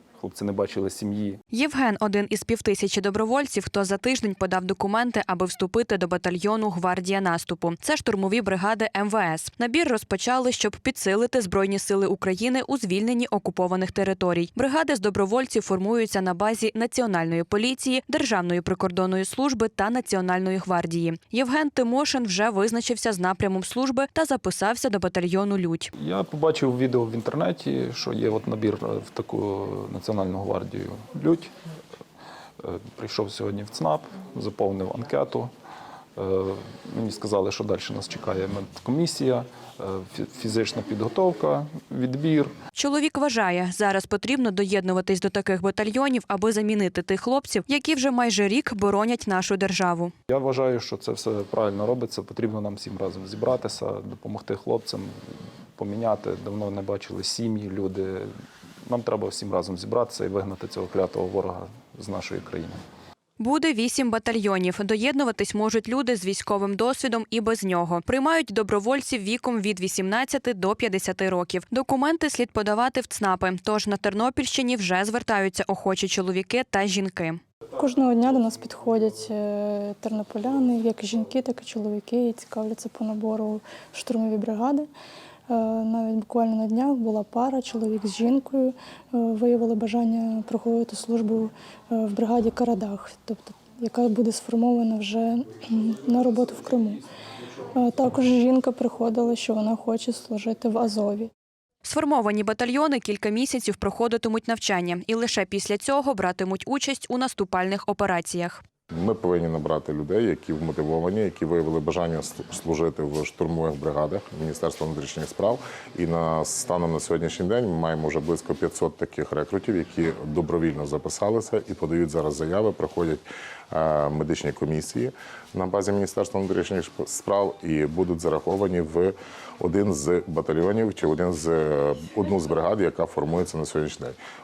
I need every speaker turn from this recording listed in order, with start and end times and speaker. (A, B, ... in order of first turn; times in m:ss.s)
0:00.2-0:01.4 A
0:01.5-0:25.9 B
0:26.0-0:31.5 A
0:32.6-0:35.5 A
0:36.2-0:42.5 A
0:42.7-0:50.1 B
0:50.3-0:55.1 A
0:55.8-0:58.3 A
0:58.9-1:02.8 A
1:03.4-1:17.4 B
1:17.8-1:24.9 C
1:25.5-1:37.0 C
1:37.7-1:41.3 C
1:41.8-1:48.6 B
1:48.9-2:14.2 D